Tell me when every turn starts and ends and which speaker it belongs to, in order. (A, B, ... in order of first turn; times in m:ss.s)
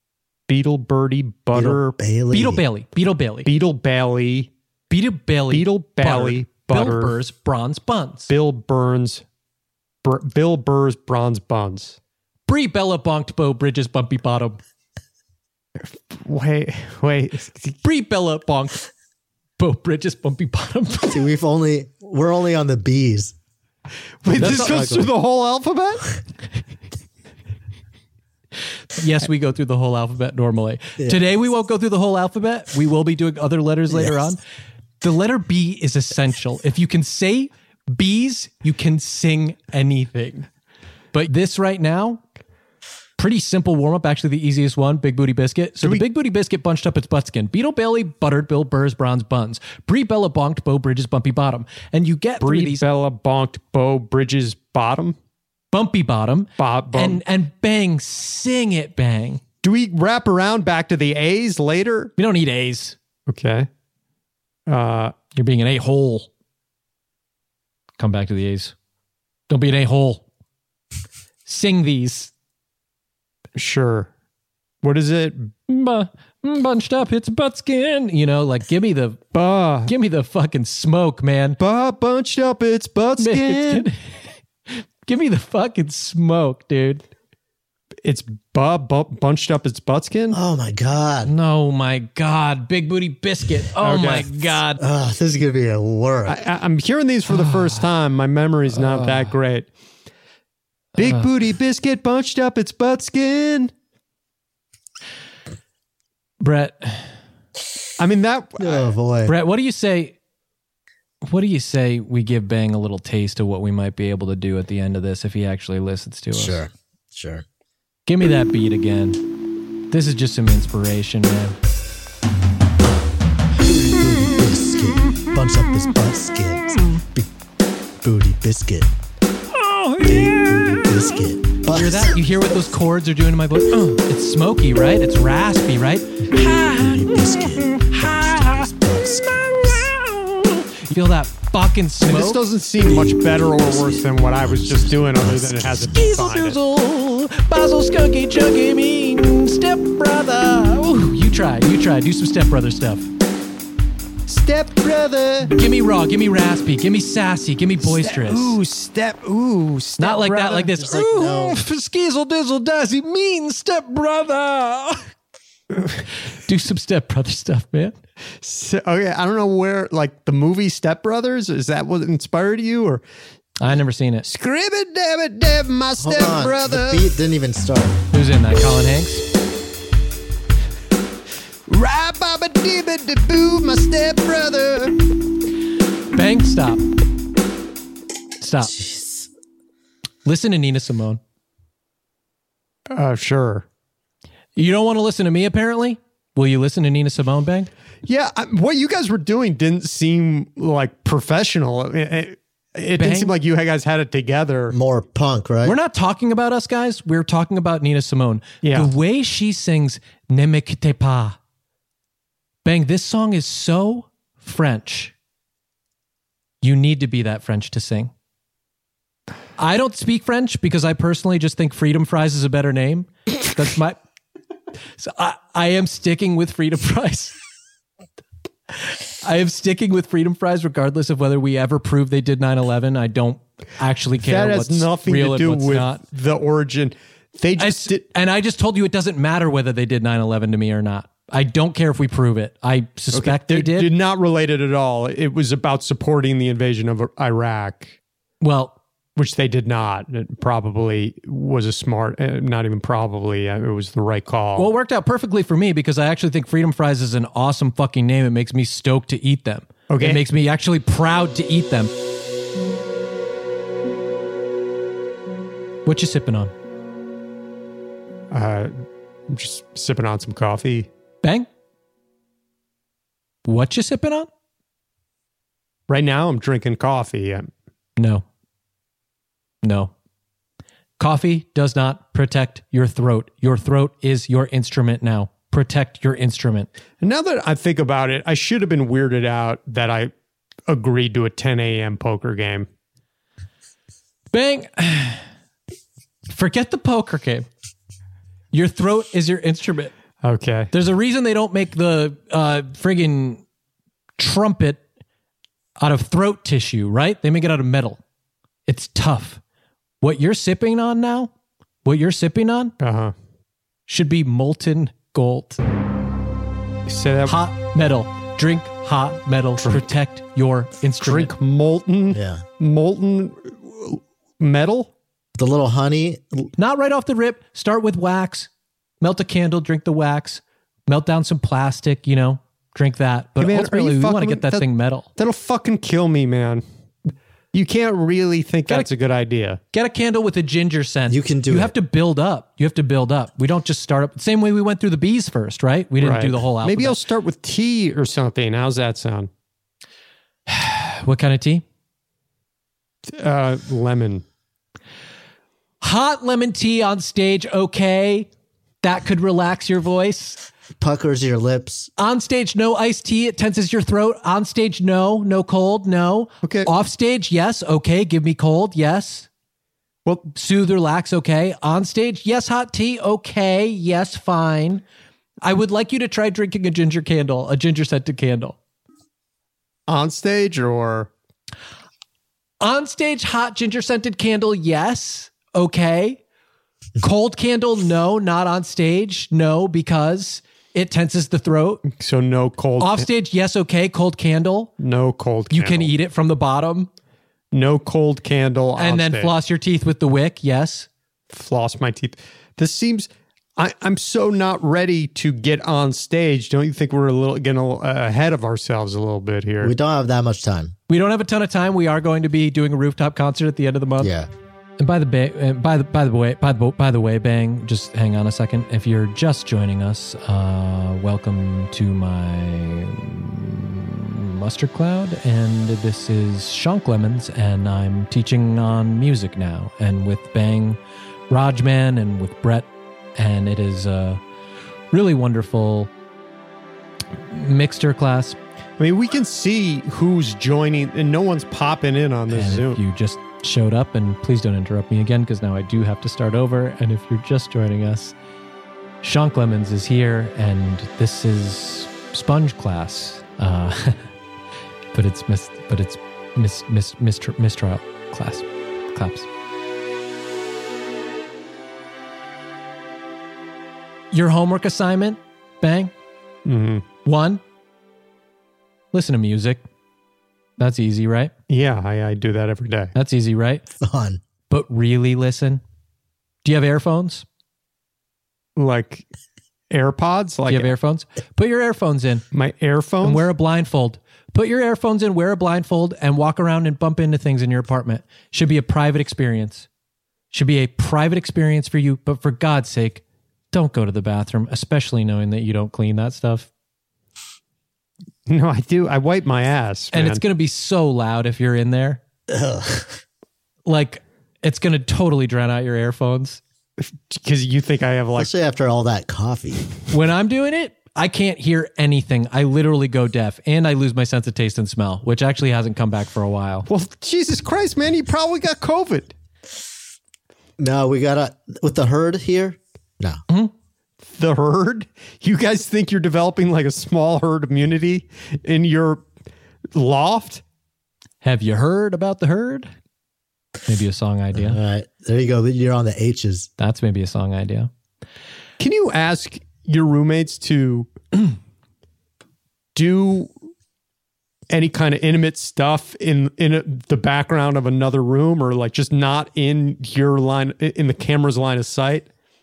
0:00.5-0:02.0 A
0:01.5-0:02.6 B
0:02.3-0:03.5 C
0:03.4-0:04.5 A
0:04.9-0:08.3 C
0:05.5-0:07.2 A
0:08.3-0:09.2 A
0:10.0-0:12.0 A
0:12.5-0:14.6 C
0:15.8-0:17.8 A
0:17.8-0:18.9 C
0:19.6-0:21.3 C
0:21.1-0:23.3 B
0:24.2-0:26.2 A
0:24.3-0:25.1 B
0:24.4-0:24.9 C
0:28.9-0:34.4 C
0:33.9-0:34.3 B
0:35.0-0:40.5 C
0:41.1-0:42.2 C
0:43.2-0:52.8 C
0:52.4-0:55.2 A
0:55.7-0:59.4 C
0:56.6-0:57.2 A
0:59.6-1:02.1 A
1:02.2-1:03.0 C
1:03.3-1:03.7 A
1:04.7-1:05.2 A
1:05.4-1:06.3 C
1:08.0-1:08.7 C
1:09.5-1:10.2 C
1:11.5-1:12.3 C
1:13.6-1:14.1 A
1:14.8-1:15.5 A
1:15.7-1:19.2 C
1:19.3-1:19.9 A
1:19.8-1:21.6 C
1:21.6-1:23.9 A
1:23.2-1:27.0 C
1:28.0-1:30.4 A
1:30.3-1:31.3 B
1:31.2-1:34.8 C
1:33.8-1:34.5 A
1:34.8-1:36.4 B
1:36.3-1:39.7 A
1:37.3-1:37.8 C
1:38.8-1:39.3 C
1:41.0-1:43.7 A
1:41.0-1:41.3 C
1:46.4-1:47.1 C
1:48.0-1:48.9 A
1:48.6-1:49.4 B
1:49.3-1:50.2 C
1:51.2-1:56.6 C
1:56.3-1:57.4 B
1:58.1-1:59.2 C
1:59.9-2:01.6 C
2:02.8-2:07.3 B
2:08.0-2:08.9 B
2:09.6-2:10.7 C
2:10.0-2:12.2 B
2:11.7-2:18.7 C
2:16.4-2:19.9 B
2:19.5-2:22.4 C
2:22.0-2:26.6 A
2:22.8-2:26.1 B
2:25.9-2:33.1 C
2:34.3-2:35.5 A
2:35.5-2:38.6 C
2:37.8-2:40.7 A
2:40.0-2:45.1 C
2:40.7-2:41.6 B
2:46.3-2:48.0 C
2:48.4-2:53.0 A
2:53.6-2:54.2 C
2:54.2-2:57.1 A
2:56.0-2:58.0 B
2:58.1-2:59.2 C
3:01.7-3:05.0 A
3:06.2-3:06.8 C
3:08.4-3:08.8 C
3:08.7-3:09.3 B
3:10.2-3:11.2 C
3:12.9-3:13.7 A
3:14.6-3:17.7 C
3:18.1-3:24.8 A
3:23.0-3:23.4 C
3:24.7-3:25.8 B
3:25.6-3:31.4 C
3:28.6-3:28.9 A
3:32.6-3:35.1 C
3:36.6-3:38.1 C
3:39.6-3:44.0 C
3:45.0-3:47.4 C
3:48.8-3:56.0 C
3:54.2-3:58.1 A
3:57.6-4:03.9 C
4:03.1-4:08.0 A
4:08.4-4:08.8 C
4:09.2-4:14.7 A
4:14.6-4:21.9 C
4:19.9-4:20.2 A
4:25.8-4:26.5 C
4:28.3-4:28.7 A
4:29.3-4:30.9 A
4:33.4-4:34.3 C
4:35.9-4:37.5 A
4:38.0-4:38.2 C
4:39.6-4:39.9 C
4:41.0-4:46.7 C
4:47.0-4:50.1 A
4:50.7-4:52.7 A
4:54.3-4:55.2 C
4:56.3-4:57.5 C
4:58.5-4:59.9 C
5:00.2-5:00.7 A
5:00.7-5:03.4 C
5:04.2-5:04.8 C
5:05.8-5:08.0 C
5:08.7-5:09.4 C
5:10.0-5:11.3 C
5:11.8-5:12.7 C
5:12.8-5:13.1 A
5:13.9-5:15.6 C
5:16.9-5:17.4 A
5:17.3-5:21.3 C
5:21.0-5:24.9 A
5:22.1-5:22.4 B
5:25.4-5:26.5 B
5:26.6-5:28.5 C
5:29.0-5:35.1 C
5:33.4-5:36.6 A
5:37.5-5:39.6 A
5:39.7-5:47.0 C
5:41.1-5:41.7 B
5:46.0-5:49.3 A
5:50.5-5:51.6 C
5:53.1-5:54.2 A
5:55.8-5:58.3 C
5:58.8-6:00.4 C
6:00.8-6:01.9 B
6:02.0-6:09.3 C
6:06.4-6:06.7 A
6:10.1-6:10.3 A
6:10.4-6:14.8 C
6:15.4-6:18.6 C
6:19.9-6:21.1 A
6:22.6-6:26.2 C
6:27.0-6:31.8 C
6:31.9-6:33.1 A
6:32.8-6:34.7 C
6:34.8-6:35.9 A
6:35.5-6:36.9 C
6:37.5-6:39.3 A
6:38.8-6:40.9 C
6:41.3-6:49.8 A
6:49.6-6:50.7 B
6:50.9-6:54.1 C
6:54.0-6:54.3 B
6:54.8-7:10.8 C
7:11.3-7:14.2 C
7:14.9-7:15.9 C
7:17.3-7:18.4 C
7:18.8-7:22.8 A
7:22.3-7:28.1 C
7:29.0-7:34.1 C
7:34.9-7:39.3 C
7:44.1-7:45.9 C
7:46.4-7:46.9 A
7:47.0-7:47.4 C
7:48.9-7:49.6 C
7:50.6-7:51.3 C
7:51.5-7:52.9 A
7:53.0-7:53.6 C
7:53.8-7:54.2 B
7:54.5-7:55.6 C
7:56.4-7:57.2 C
7:58.6-7:59.1 A
7:59.7-8:00.7 A
8:00.5-8:02.2 C
8:02.3-8:03.2 A
8:03.0-8:09.7 C
8:10.3-8:16.5 C
8:18.3-8:20.2 A
8:19.9-8:22.0 C
8:22.3-8:23.0 B
8:23.7-8:26.4 C
8:26.8-8:28.3 A
8:28.2-8:29.6 B
8:29.9-8:36.7 C
8:36.7-8:39.1 A
8:40.6-8:43.2 B
8:44.1-8:49.0 A
8:49.7-8:50.4 A
8:51.2-8:52.7 C
8:53.7-8:54.6 C
8:54.3-8:56.5 B
8:56.6-8:57.7 C
8:58.6-9:00.9 A
9:02.8-9:03.3 A
9:04.5-9:12.1 A